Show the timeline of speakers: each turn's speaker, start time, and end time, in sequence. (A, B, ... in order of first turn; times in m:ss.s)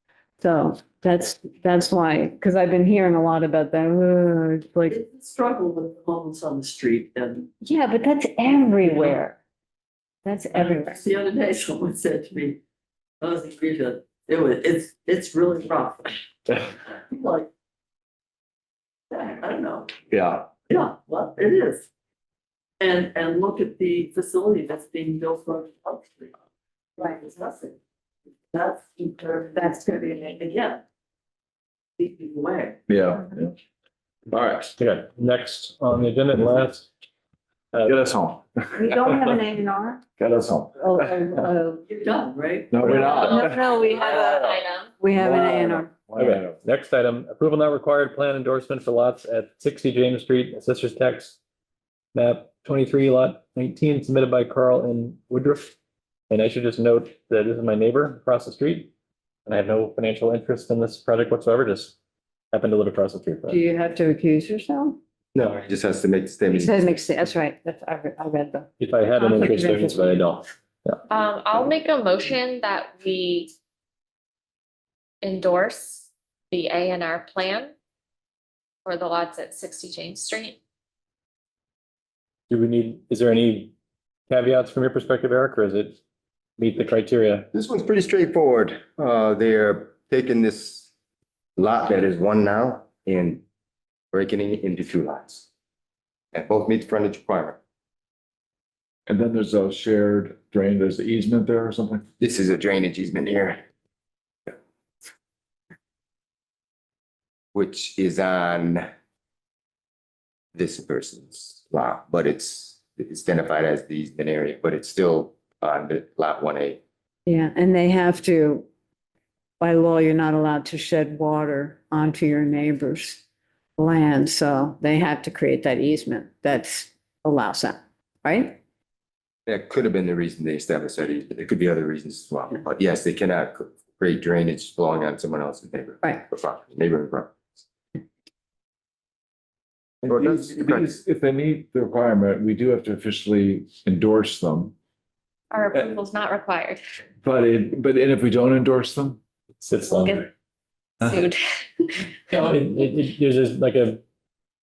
0:00.4-0:05.0 A
0:04.9-0:07.5 B
0:07.6-0:09.4 A
0:08.8-0:09.2 B
0:10.2-0:11.0 A
0:10.5-0:12.6 B
0:13.2-0:16.2 B
0:17.1-0:17.5 B
0:19.1-0:20.0 B
0:20.1-0:20.5 C
0:20.5-0:21.9 B
0:22.8-0:26.3 B
0:27.0-0:27.8 B
0:28.5-0:30.8 B
0:29.6-0:30.4 A
0:32.0-0:32.8 B
0:32.9-0:33.5 C
0:34.3-0:34.7 C
0:34.8-0:36.9 D
0:37.7-0:38.0 D
0:37.8-0:38.8 C
0:38.8-0:40.0 A
0:39.0-0:39.2 D
0:40.2-0:41.4 C
0:40.8-0:41.8 A
0:41.9-0:43.4 B
0:42.7-0:43.6 C
0:43.0-0:44.9 E
0:43.2-0:45.9 A
0:44.2-0:44.6 C
0:45.1-0:46.6 C
0:46.2-0:51.4 D
0:52.1-0:55.7 D
0:56.3-0:58.9 D
0:59.5-1:01.9 D
1:02.5-1:03.6 D
1:03.5-1:05.0 A
1:05.4-1:07.0 F
1:06.5-1:08.7 A
1:08.8-1:11.0 D
1:09.2-1:10.2 A
1:11.1-1:13.5 E
1:15.2-1:17.7 E
1:18.8-1:20.6 E
1:22.5-1:23.7 D
1:24.3-1:26.0 D
1:26.6-1:27.5 D
1:27.5-1:30.9 F
1:31.6-1:33.4 F
1:34.1-1:35.5 F
1:36.3-1:37.6 F
1:39.1-1:42.1 C
1:42.2-1:43.6 F
1:47.5-1:48.9 F
1:50.6-1:56.8 F
1:57.3-1:58.6 A
1:59.6-2:03.2 A
2:03.8-2:08.6 A
2:09.5-2:17.4 F
2:20.0-2:24.7 C
2:20.1-2:20.8 F
2:25.5-2:26.8 E
2:27.2-2:29.2 C
2:29.6-2:30.3 D
2:29.9-2:30.3 E
2:31.0-2:32.0 E
2:32.3-2:34.0 D